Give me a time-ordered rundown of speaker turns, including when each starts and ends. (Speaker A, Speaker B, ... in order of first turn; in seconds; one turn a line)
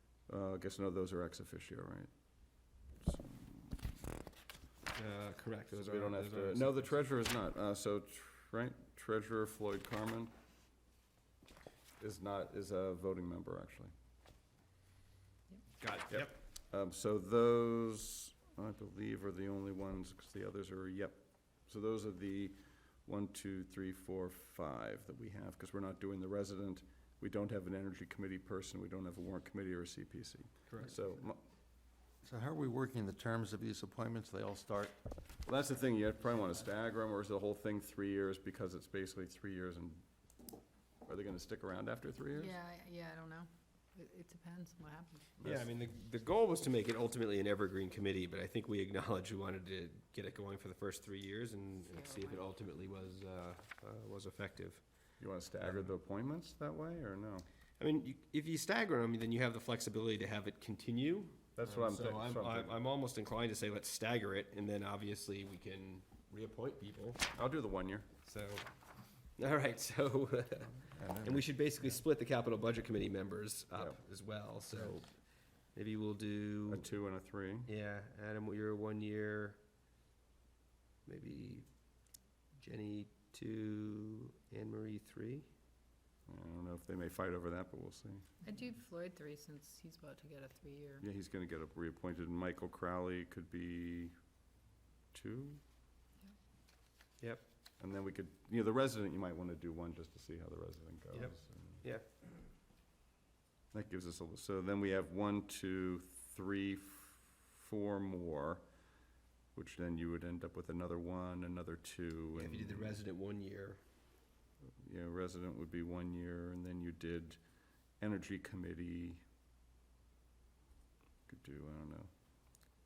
Speaker A: 0.3-2.1
Speaker A: 3.0-4.0
Speaker B: 4.9-7.0
Speaker A: 5.7-10.3
Speaker A: 12.0-13.9
Speaker B: 15.8-16.4
Speaker A: 16.1-31.4
Speaker B: 30.7-30.9
Speaker C: 32.2-34.9
Speaker A: 35.5-40.0
Speaker A: 41.0-42.5
Speaker D: 42.3-45.3
Speaker A: 45.4-45.6
Speaker B: 45.4-54.8
Speaker D: 52.0-52.2
Speaker A: 55.2-57.5
Speaker B: 55.6-55.9
Speaker B: 57.8-67.2
Speaker A: 61.5-62.8
Speaker A: 67.3-68.1
Speaker B: 68.2-68.7
Speaker B: 69.4-75.1
Speaker A: 70.9-71.5
Speaker B: 75.7-76.9
Speaker A: 76.7-77.7
Speaker B: 77.7-79.6
Speaker B: 81.0-81.7
Speaker B: 82.5-85.5
Speaker A: 86.3-88.2
Speaker D: 88.4-91.0
Speaker A: 91.0-94.1
Speaker A: 95.1-95.6
Speaker A: 97.8-101.8
Speaker B: 101.1-102.1
Speaker A: 103.7-108.6
Speaker A: 109.5-113.0
Speaker B: 112.3-113.8
Speaker A: 114.8-117.4
Speaker A: 118.0-119.2
Speaker A: 121.3-122.1